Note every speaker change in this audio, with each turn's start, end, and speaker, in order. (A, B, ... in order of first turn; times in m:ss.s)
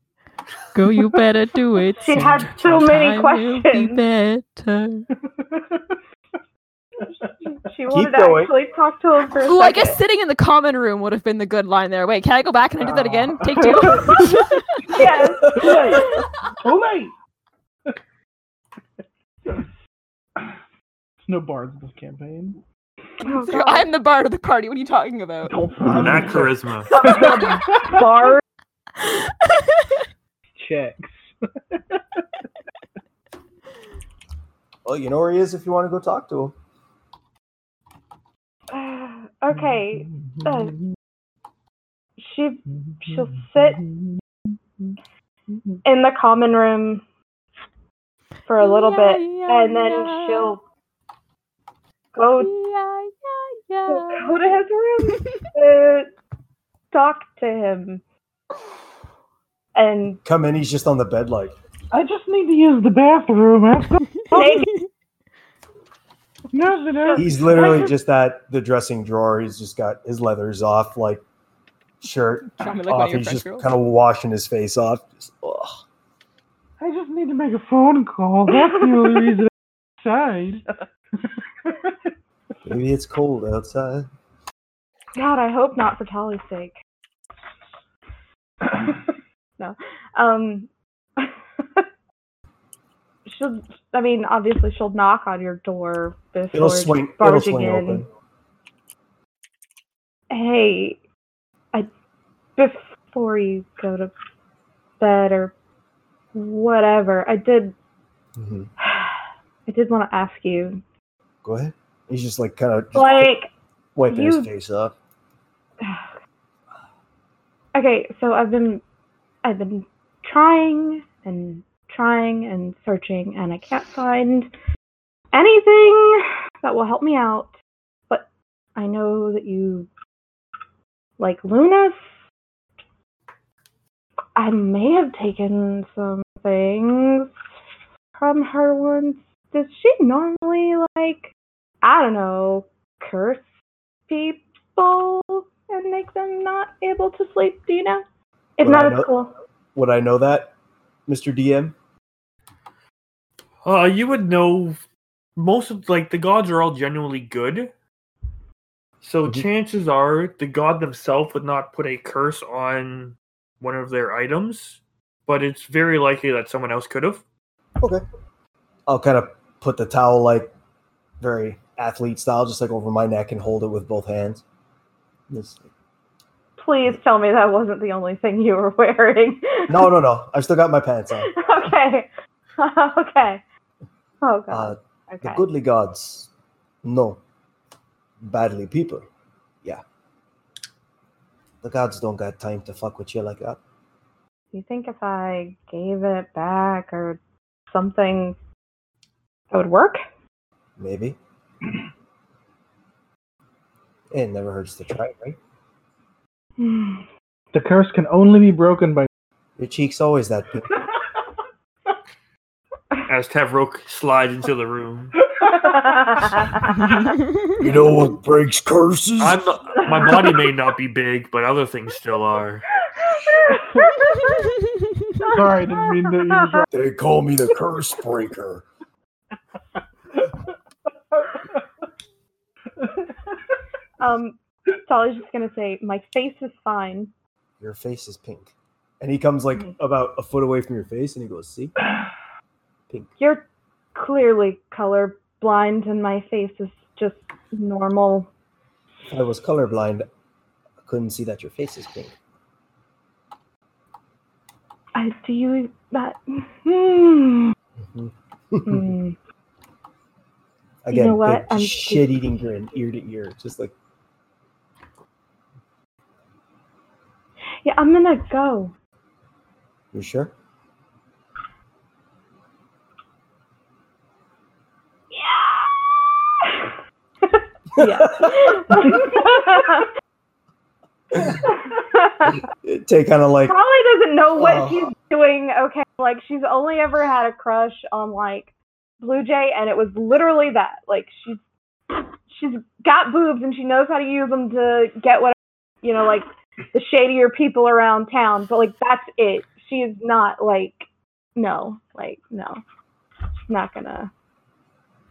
0:00.7-0:05.1 A
0:02.0-0:04.0 B
0:05.4-0:05.8 C
0:07.5-0:10.0 B
0:07.9-0:08.5 D
0:09.4-0:15.0 A
0:12.8-0:14.4 C
0:14.9-0:16.0 B
0:14.9-0:17.1 C
0:21.3-0:22.6 C
0:23.2-0:23.9 B
0:23.3-0:25.6 A
0:25.5-0:28.3 C
0:25.9-0:26.2 D
0:25.9-0:26.9 E
0:26.9-0:28.4 B
0:29.1-0:29.7 A
0:30.6-0:32.2 C
0:34.8-0:36.6 D
0:38.7-0:40.8 B
0:39.5-0:40.9 C
0:42.2-0:43.8 B
0:42.8-0:44.2 C
0:45.8-0:47.0 B
0:48.5-0:50.6 B
0:48.6-0:50.6 A
0:52.1-0:52.5 B
0:52.4-0:54.4 A
0:53.9-0:56.1 B
0:55.1-0:55.4 A
0:56.9-0:58.0 B
0:59.8-1:00.2 B
1:00.2-1:01.6 D
1:01.9-1:04.5 C
1:04.3-1:04.8 A
1:04.3-1:04.7 B
1:06.5-1:07.8 C
1:07.0-1:07.9 B
1:07.2-1:11.2 D
1:12.0-1:15.8 D
1:12.6-1:13.7 A
1:16.8-1:20.6 C
1:22.6-1:24.1 D
1:25.2-1:26.8 B
1:29.6-1:31.8 B
1:33.3-1:38.0 B
1:36.5-1:38.1 D
1:40.3-1:41.0 B
1:42.6-1:44.1 B
1:45.0-1:45.6 B
1:46.3-1:47.8 B
1:48.4-1:48.7 D
1:48.8-1:50.8 B
1:51.4-1:53.3 D
1:52.9-1:53.5 B
1:54.0-1:55.0 D
1:54.1-1:54.5 B
1:55.8-1:56.1 B
1:57.7-1:58.8 B
1:59.4-2:04.5 B
2:05.3-2:07.5 B
2:08.1-2:09.9 B
2:11.2-2:12.0 B
2:14.4-2:17.3 B
2:18.2-2:23.4 B
2:24.1-2:28.0 B
2:28.6-2:29.3 B
2:28.6-2:29.1 D
2:29.8-2:30.5 D
2:31.1-2:31.8 D
2:33.6-2:34.8 E
2:35.4-2:37.7 E
2:39.0-2:47.2 E
2:48.9-2:50.5 D
2:51.2-2:54.4 D
2:55.3-2:55.7 D
2:56.6-2:59.9 B
2:59.7-3:01.3 D
3:01.2-3:03.4 B
3:04.2-3:05.4 B
3:04.5-3:06.3 D
3:06.8-3:07.2 D
3:08.2-3:09.1 D
3:11.6-3:13.6 D
3:14.5-3:17.2 B
3:17.7-3:18.4 B
3:19.5-3:20.0 B
3:20.8-3:21.2 D
3:24.1-3:25.4 D
3:26.6-3:27.0 B
3:27.5-3:29.1 C
3:29.6-3:30.8 D
3:33.1-3:35.2 E
3:35.4-3:36.2 C
3:35.5-3:37.0 B
3:37.6-3:39.4 D
3:39.2-3:42.7 E
3:39.8-3:40.2 B
3:43.0-3:44.5 B
3:43.6-3:43.9 C
3:45.2-3:46.7 B
3:45.3-3:46.7 C
3:46.7-3:48.7 D
3:54.0-3:57.1 B
3:57.6-4:01.8 D
4:03.2-4:08.3 B
4:09.1-4:10.0 D
4:10.8-4:12.1 D
4:15.0-4:17.5 B
4:17.8-4:18.9 D
4:18.6-4:19.2 B
4:20.8-4:23.7 D
4:20.9-4:22.2 B
4:27.6-4:28.7 B
4:29.9-4:30.3 D
4:35.1-4:39.9 B
4:37.8-4:39.3 D
4:41.1-4:41.4 D
4:41.4-4:42.4 B
4:42.3-4:43.6 D
4:43.5-4:51.4 B
4:44.4-4:44.9 D
4:51.9-5:02.6 B
5:03.5-5:04.1 B